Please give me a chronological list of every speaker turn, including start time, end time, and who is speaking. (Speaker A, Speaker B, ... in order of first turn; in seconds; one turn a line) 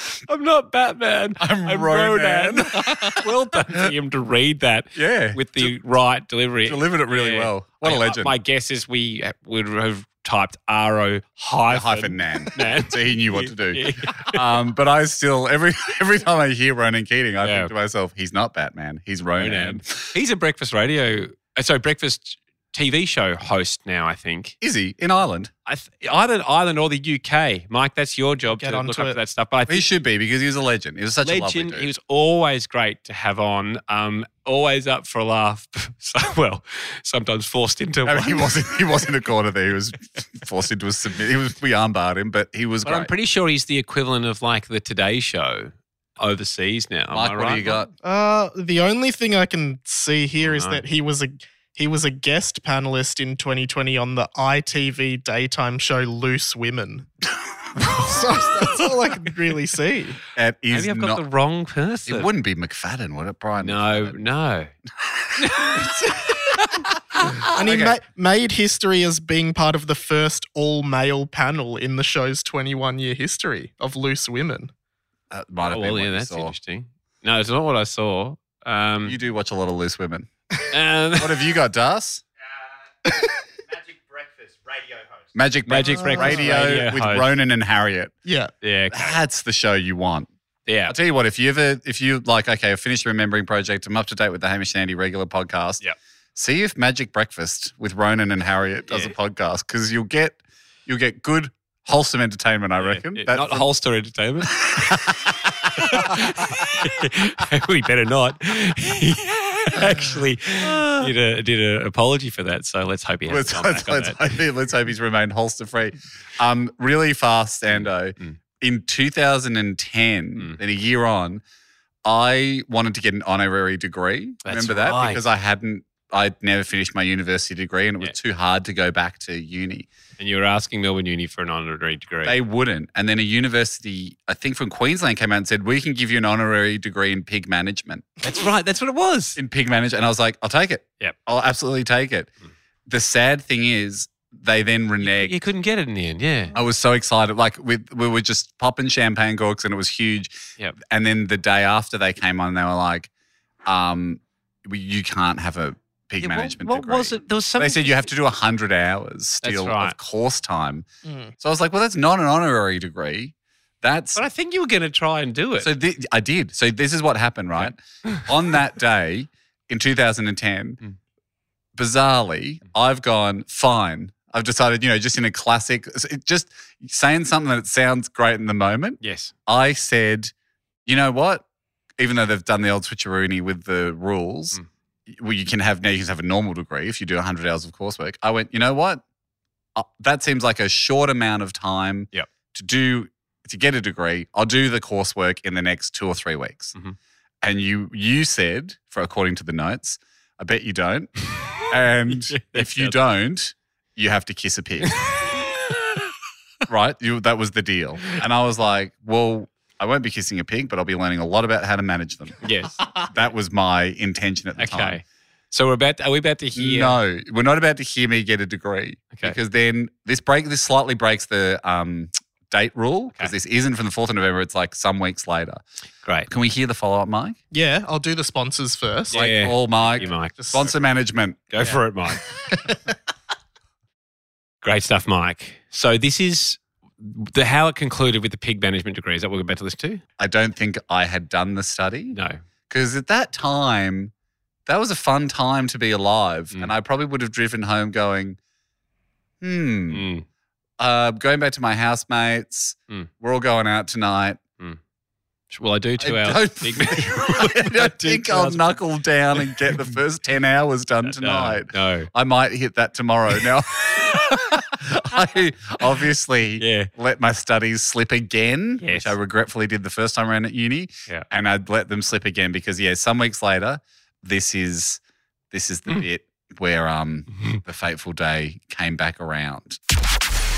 Speaker A: 0.3-14.4
Speaker B: 1.4-3.3
Speaker B: 5.0-5.8
Speaker B: 6.7-8.3
Speaker B: 11.7-20.1
Speaker A: 17.4-17.7
Speaker A: 19.4-24.6
Speaker B: 24.6-25.5
Speaker A: 25.7-29.9
Speaker C: 28.5-29.2
Speaker B: 29.7-31.9
Speaker A: 31.2-38.5
Speaker B: 38.1-43.1
Speaker A: 42.9-47.9
Speaker B: 47.1-47.9
Speaker C: 48.0-57.1
Speaker A: 50.4-50.8
Speaker C: 57.8-60.2
Speaker B: 60.4-61.2
Speaker A: 60.7-62.3
Speaker B: 62.1-64.2
Speaker A: 63.6-64.7
Speaker A: 65.4-65.8
Speaker B: 65.5-66.3
Speaker C: 67.5-74.7
Speaker B: 67.6-68.0
Speaker B: 75.3-76.5
Speaker A: 75.7-79.2
Speaker B: 79.0-80.3
Speaker A: 80.7-81.5
Speaker B: 81.2-82.2
Speaker B: 85.3-88.1
Speaker A: 85.7-87.3
Speaker C: 85.9-86.7
Speaker C: 88.2-88.5
Speaker A: 88.6-89.2
Speaker B: 88.9-90.3
Speaker A: 90.7-91.0
Speaker B: 90.9-95.8
Speaker B: 96.4-103.7
Speaker A: 98.9-99.1
Speaker A: 102.8-114.2
Speaker B: 104.6-105.3
Speaker B: 113.3-121.4
Speaker A: 117.7-118.4
Speaker B: 122.0-129.9
Speaker A: 124.5-125.2
Speaker A: 130.2-132.4
Speaker B: 132.2-138.1
Speaker A: 138.2-139.4
Speaker B: 139.4-142.3
Speaker B: 142.9-145.4
Speaker A: 145.0-146.6
Speaker B: 146.6-150.3
Speaker B: 150.9-153.1
Speaker B: 153.7-160.9
Speaker A: 156.2-158.1
Speaker A: 159.4-160.0
Speaker C: 161.1-161.3
Speaker B: 161.4-164.2
Speaker A: 164.2-165.7
Speaker B: 165.6-170.8
Speaker A: 167.6-168.2
Speaker B: 171.8-180.3
Speaker A: 179.0-179.3
Speaker B: 180.9-181.4
Speaker B: 182.0-184.6
Speaker B: 185.1-189.0
Speaker B: 189.8-196.8
Speaker B: 197.4-201.1
Speaker B: 201.7-204.9
Speaker A: 202.1-202.9
Speaker A: 205.3-205.6
Speaker B: 206.7-212.4
Speaker A: 212.4-212.8
Speaker B: 213.1-215.0
Speaker A: 214.6-217.0
Speaker B: 216.6-225.6
Speaker B: 226.3-227.4
Speaker C: 227.5-229.2
Speaker A: 229.1-230.5
Speaker B: 229.1-231.6
Speaker C: 229.8-230.7
Speaker A: 231.5-232.2
Speaker A: 234.6-240.0
Speaker B: 240.2-242.2
Speaker A: 242.1-242.4
Speaker B: 242.7-244.1
Speaker B: 244.7-248.4
Speaker B: 249.4-250.1
Speaker A: 249.9-250.2
Speaker B: 250.8-254.4
Speaker A: 255.5-258.8
Speaker B: 256.0-275.0
Speaker A: 261.0-262.1
Speaker A: 266.6-266.9
Speaker A: 268.8-269.1
Speaker B: 275.5-279.8